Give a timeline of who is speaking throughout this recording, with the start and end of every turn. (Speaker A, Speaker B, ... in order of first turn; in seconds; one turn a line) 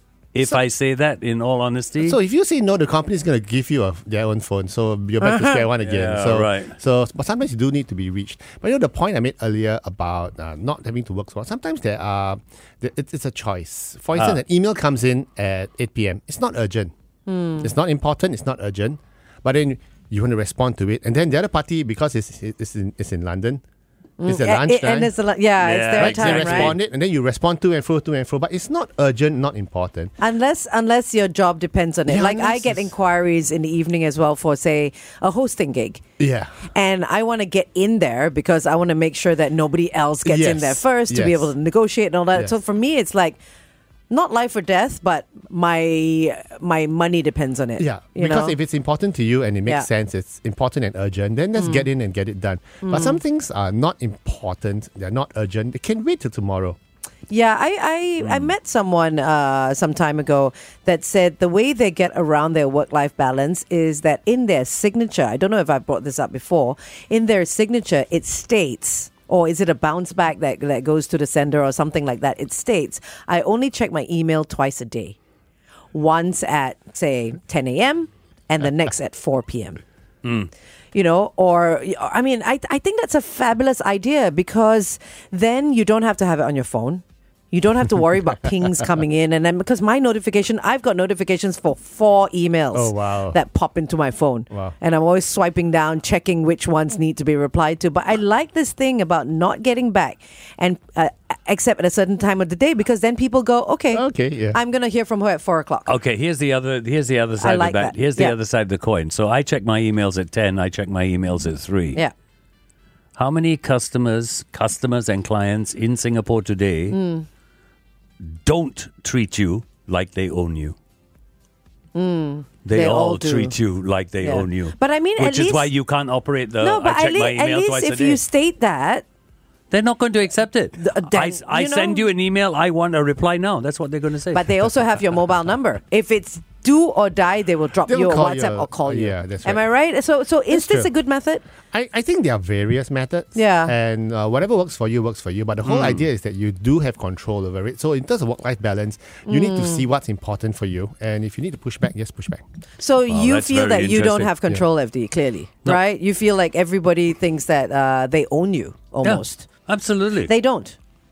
Speaker A: 0.3-2.2
Speaker B: 2.0-16.9
Speaker C: 5.2-5.6
Speaker A: 5.8-6.7
Speaker A: 14.2-14.4
Speaker C: 17.3-17.7
Speaker B: 17.6-23.6
Speaker C: 24.2-26.7
Speaker B: 24.2-25.1
Speaker A: 25.6-26.8
Speaker B: 26.0-30.1
Speaker C: 30.2-36.0
Speaker B: 32.1-32.9
Speaker B: 36.2-36.5
Speaker C: 36.7-43.4
Speaker B: 40.2-41.5
Speaker C: 44.1-48.5
Speaker B: 47.8-56.8
Speaker C: 51.6-51.8
Speaker C: 52.8-53.2
Speaker C: 57.3-75.2
Speaker C: 75.9-79.8
Speaker A: 80.2-80.5
Speaker C: 80.9-105.9
Speaker B: 92.7-93.4
Speaker B: 103.9-104.6
Speaker A: 105.9-112.0
Speaker C: 107.4-108.3
Speaker A: 113.2-117.0
Speaker C: 116.9-117.2
Speaker A: 118.2-120.8
Speaker C: 121.9-123.5
Speaker A: 122.6-128.2
Speaker C: 124.2-125.7
Speaker C: 126.6-129.0
Speaker A: 129.7-134.5
Speaker C: 130.8-132.1
Speaker C: 134.3-141.4
Speaker B: 137.8-139.7
Speaker B: 140.5-140.9
Speaker B: 141.7-152.4
Speaker C: 143.3-143.7
Speaker A: 145.6-146.1
Speaker C: 149.2-149.8
Speaker C: 152.8-159.5
Speaker A: 153.1-154.6
Speaker A: 159.0-160.3
Speaker C: 160.2-160.8